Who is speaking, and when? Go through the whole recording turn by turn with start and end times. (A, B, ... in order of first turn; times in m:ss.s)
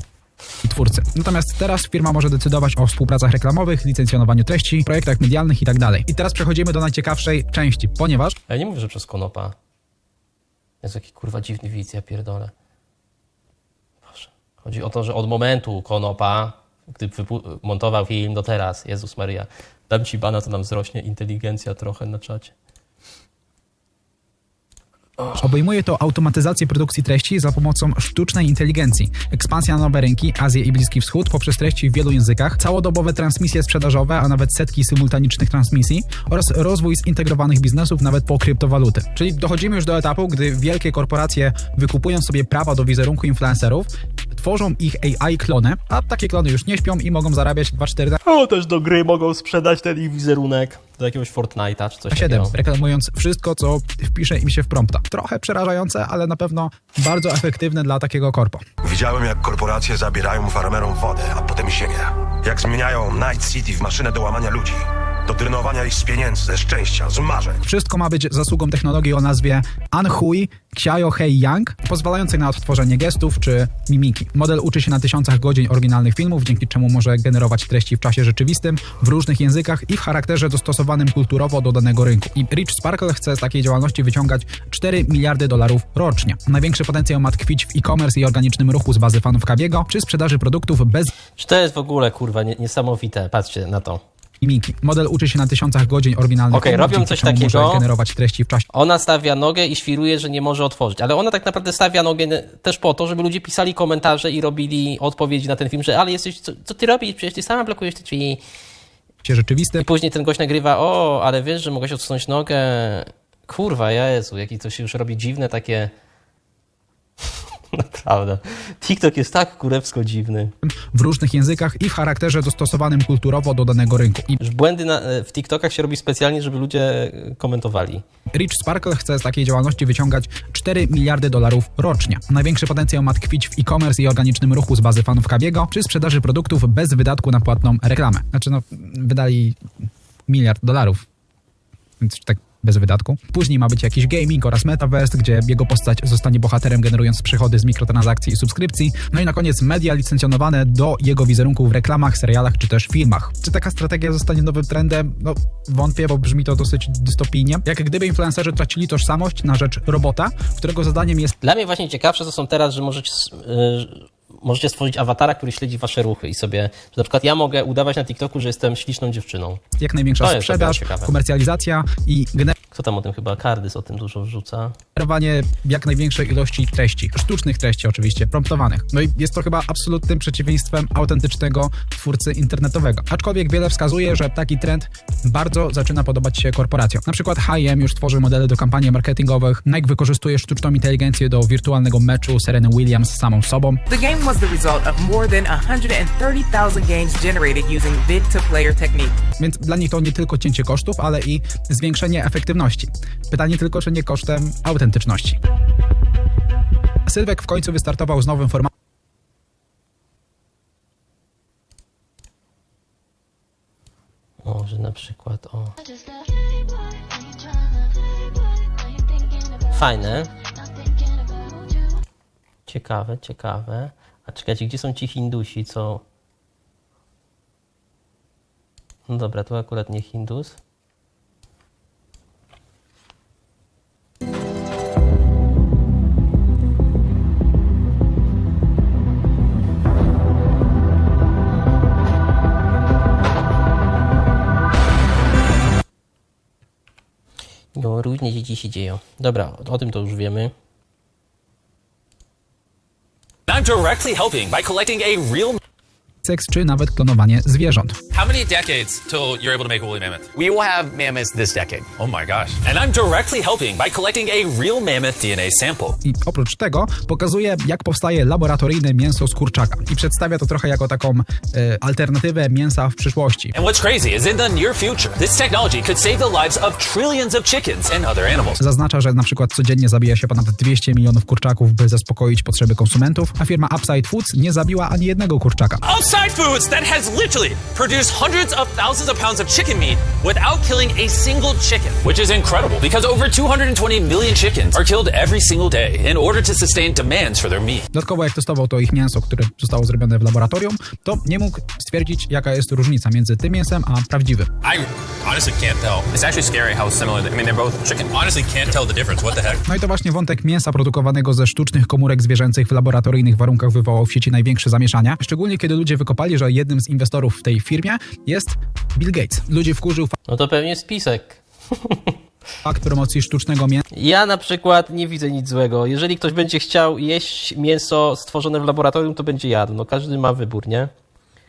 0:00.6-0:08.4 A
0:08.5-0:09.5 B
0:10.8-0:12.5 B
0:14.0-0:22.5 B
0:25.4-0:48.2 A
0:48.2-0:52.5 B
0:52.1-0:58.6 A
0:58.8-1:07.6 C
1:07.6-1:31.1 A
1:31.4-1:34.0 B
1:34.4-1:38.7 A
1:36.5-1:37.9 B
1:38.7-1:48.4 B
1:49.2-1:49.9 A
1:49.8-1:55.9 B
1:57.7-2:00.5 B
2:00.6-2:04.4 A
2:04.4-2:08.0 B
2:08.4-2:19.6 A
2:20.3-2:21.0 A
2:22.0-2:41.3 A
2:41.4-2:49.6 B
2:49.8-2:52.5 A
2:50.2-2:51.1 B
2:52.7-2:54.8 B
2:55.0-3:13.8 A
3:13.9-3:19.2 D
3:19.4-3:25.4 A
3:27.1-3:28.7 A
3:34.4-3:35.7 B
3:39.7-3:40.3 B
3:42.7-3:46.0 B
3:49.1-3:50.6 B
4:07.8-4:10.5 B
4:13.5-4:15.6 E
4:16.2-4:18.0 A
4:18.1-4:26.0 E
4:26.0-4:33.5 A
4:33.6-4:38.6 E
4:38.6-4:45.8 A
4:45.8-4:57.8 E
4:57.9-5:04.5 A
5:04.6-5:09.6 E
5:09.6-5:20.1 A
5:20.3-5:22.2 B
5:22.6-5:23.8 A
5:23.9-5:30.9 B